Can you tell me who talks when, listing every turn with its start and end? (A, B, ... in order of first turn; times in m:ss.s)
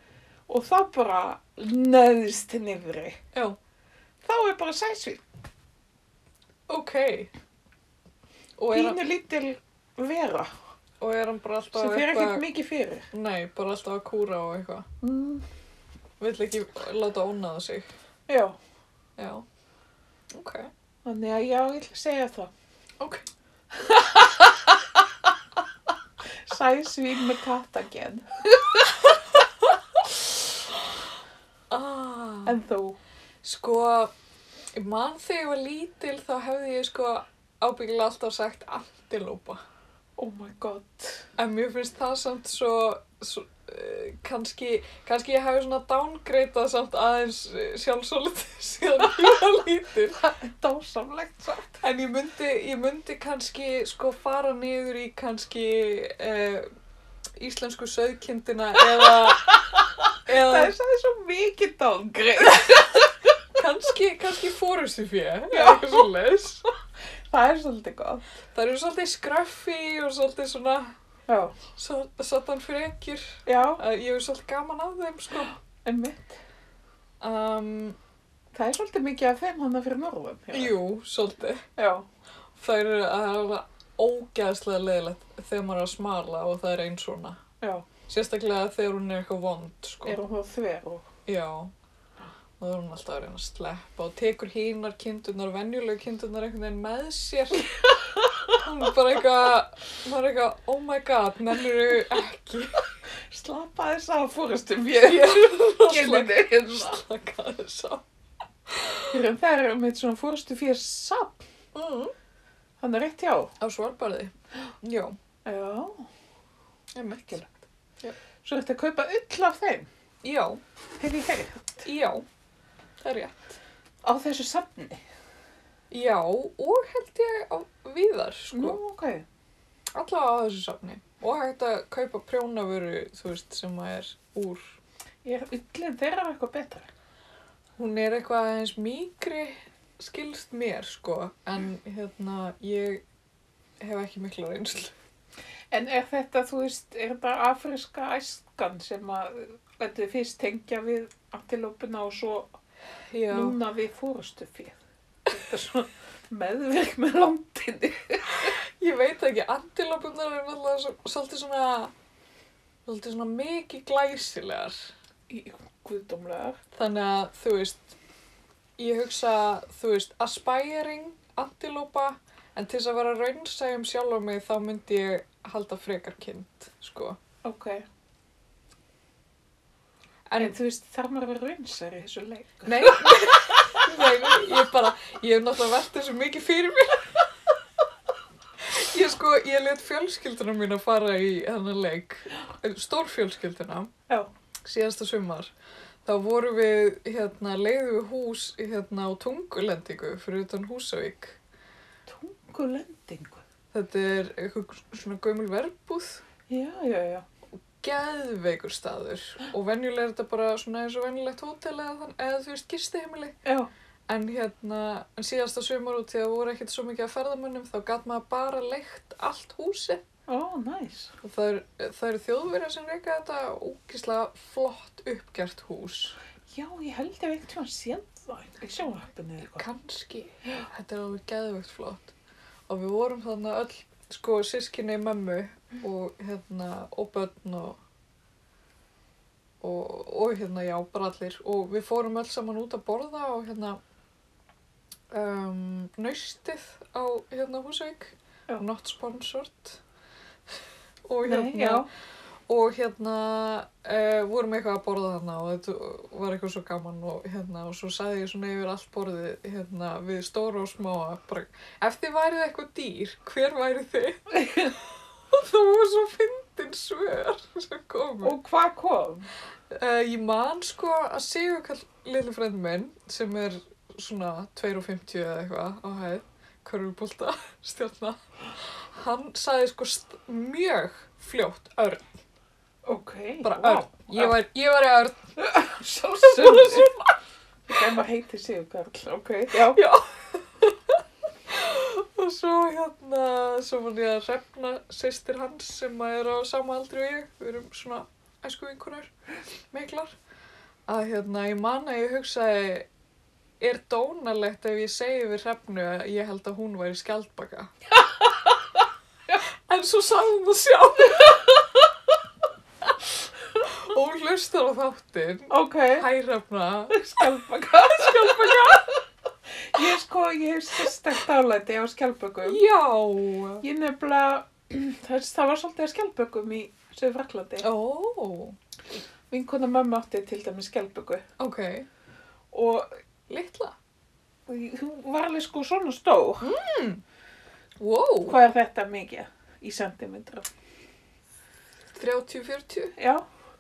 0:00.5-0:03.2 A
0:03.3-0:03.6 B
0:04.2-0:05.2 A
0:06.7-0:07.3 B
0:08.6-0:09.0 B
0:08.7-0:10.5 A
0:11.0-0:12.4 B
0:11.8-0:13.1 A
0:13.1-0:14.9 B
0:15.0-0:15.5 A
0:16.2-0:17.9 B
0:18.3-0:18.6 A
0:19.2-0:19.4 B
0:20.3-0:20.7 B
0:21.0-0:22.5 A
0:23.8-0:24.8 A
0:26.4-0:28.8 A
0:31.7-0:32.6 B
0:32.5-0:33.0 A
0:33.4-0:34.1 B
0:34.8-0:39.6 B
0:40.2-0:41.3 A
0:41.4-0:50.2 B
0:50.2-0:51.8 A
0:51.8-0:56.7 B
0:57.4-0:59.6 B
0:59.5-0:59.8 A
1:00.3-1:00.7 B
1:00.3-1:03.3 A
1:03.6-1:06.7 B
1:05.5-1:06.0 A
1:07.3-1:08.3 A
1:08.5-1:11.0 B
1:11.3-1:11.6 A
1:11.7-1:15.5 B
1:13.5-1:13.8 A
1:15.8-1:16.4 A
1:17.2-1:18.0 B
1:18.5-1:20.8 A
1:20.5-1:21.6 B
1:21.8-1:22.1 A
1:22.6-1:27.4 B
1:27.6-1:27.9 A
1:28.1-1:30.2 B
1:30.0-1:31.1 A
1:31.3-1:31.7 B
1:32.6-1:37.8 B
1:38.5-1:42.8 B
1:43.3-1:47.0 A
1:45.0-1:48.0 B
1:48.7-1:49.2 B
1:49.1-1:51.4 A
1:51.7-1:52.1 B
1:52.8-1:53.5 A
1:53.6-1:55.2 B
1:55.4-1:56.1 A
1:56.9-1:57.4 B
1:57.2-1:57.5 A
1:58.4-1:59.9 A
2:00.2-2:00.6 B
2:01.0-2:01.8 A
2:01.8-2:02.3 B
2:03.0-2:03.6 B
2:04.0-2:05.0 A
2:05.9-2:08.8 B
2:08.5-2:09.3 A
2:09.9-2:14.8 B
2:15.2-2:16.9 A
2:17.8-2:23.0 B
2:23.8-2:24.9 B
2:25.7-2:32.5 A
2:33.1-2:33.6 B
2:33.3-2:38.6 A
2:38.4-2:41.9 B
2:42.9-2:44.8 B
2:45.3-2:46.6 A
2:46.7-2:48.0 B
2:48.8-2:57.2 B
2:57.4-2:57.8 A
3:00.3-3:00.6 B
3:00.4-3:03.8 A
3:02.6-3:07.3 B
3:08.6-3:13.9 B
3:14.6-3:15.5 B
3:16.0-3:21.4 B
3:22.1-3:23.4 A
3:23.7-3:26.2 B
3:26.5-3:27.3 A
3:27.8-3:33.4 B
3:33.4-3:33.7 A
3:34.1-3:40.0 B
3:40.3-3:41.2 A
3:41.2-3:46.2 B
3:46.5-3:49.7 A
3:49.4-3:52.1 B
3:52.7-3:57.8 B
3:59.6-4:03.8 B
4:05.1-4:09.8 B
4:11.1-4:11.9 B
4:11.2-4:11.9 A
4:12.5-4:28.4 B
4:28.2-4:29.3 A
4:29.7-4:42.1 B
4:42.8-4:44.4 A
4:43.4-4:45.2 B
4:45.4-4:47.0 A
4:46.2-4:47.2 B
4:47.7-4:49.8 A
4:49.5-4:59.1 B
4:59.7-5:00.2 B
5:00.9-5:02.9 B
5:03.6-5:07.7 B
5:09.4-5:11.6 B
5:13.6-5:18.9 B
5:15.5-5:16.1 A
5:16.9-5:19.0 A
5:19.7-5:22.6 A
5:22.4-5:23.6 B
5:23.6-5:27.7 A
5:27.6-5:28.6 B
5:29.3-5:31.2 A
5:31.4-5:31.9 B
5:32.5-5:32.9 A
5:33.3-5:33.8 B
5:34.5-5:36.5 A
5:36.4-5:37.0 B
5:37.8-5:38.4 B
5:38.2-5:40.5 A
5:41.9-5:43.0 B
5:43.0-5:43.2 A